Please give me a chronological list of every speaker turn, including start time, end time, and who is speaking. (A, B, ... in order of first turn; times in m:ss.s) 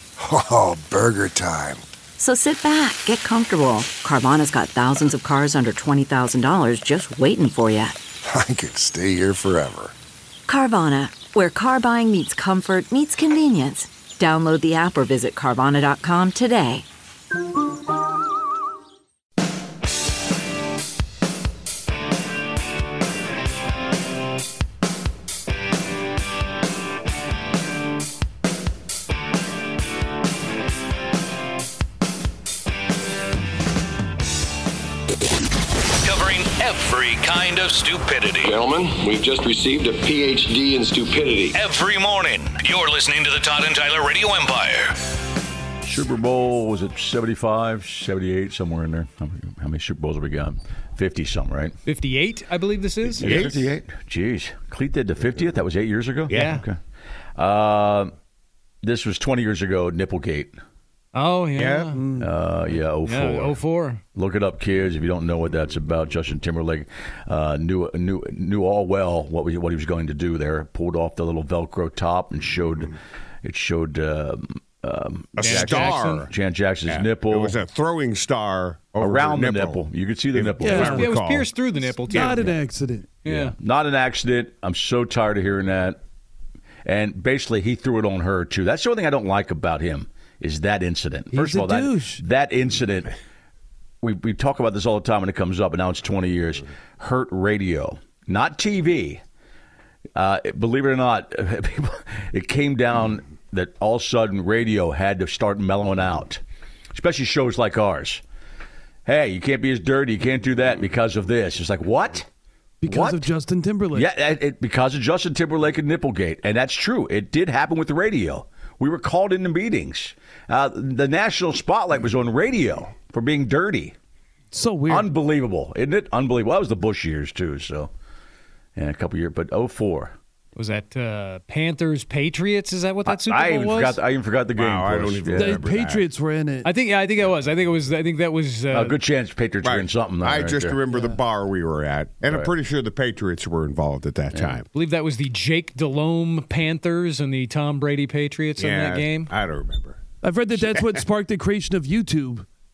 0:00.2-0:01.8 A
0:02.2-0:08.0 B
0:08.2-0:09.9 A
0:10.5-0:16.8 B
0:36.0-0:38.6 C
0:38.4-0:41.6 D
0:41.5-0:45.0 C
0:45.8-0:51.7 E
0:51.8-0:53.3 F
0:53.2-0:53.7 G
0:53.2-0:56.8 E
0:56.3-0:56.6 F
0:57.4-0:58.1 E
0:58.8-1:00.6 E
1:01.1-1:02.0 F
1:01.6-1:02.0 G
1:02.0-1:02.3 H
1:02.2-1:03.6 E
1:03.0-1:04.0 F
1:04.1-1:17.6 E
1:15.4-1:16.3 G
1:15.4-1:16.3 F
1:16.8-1:21.5 G
1:19.0-1:21.0 E
1:20.6-1:21.1 H
1:20.8-1:22.5 F
1:22.1-1:23.1 H
1:23.2-1:23.5 F
1:23.3-1:26.0 E
1:26.8-1:33.1 E
1:31.3-1:32.2 H
1:34.0-1:39.2 E
1:40.2-1:46.4 E
1:46.9-1:48.2 E
1:49.0-1:52.3 E
1:52.8-1:54.1 H
1:52.8-1:53.3 E
1:53.9-2:03.9 E
2:04.5-2:05.1 H
2:04.9-2:07.9 E
2:08.8-2:10.2 E
2:10.6-2:14.0 F
2:13.0-2:15.6 E
2:14.6-2:16.0 G
2:15.3-2:16.7 H
2:16.6-2:19.0 F
2:18.7-2:20.8 E
2:19.6-2:24.6 G
2:22.3-2:22.5 E
2:24.3-2:24.6 E
2:24.7-2:29.3 F
2:28.6-2:30.0 G
2:30.2-2:32.4 H
2:30.6-2:31.0 G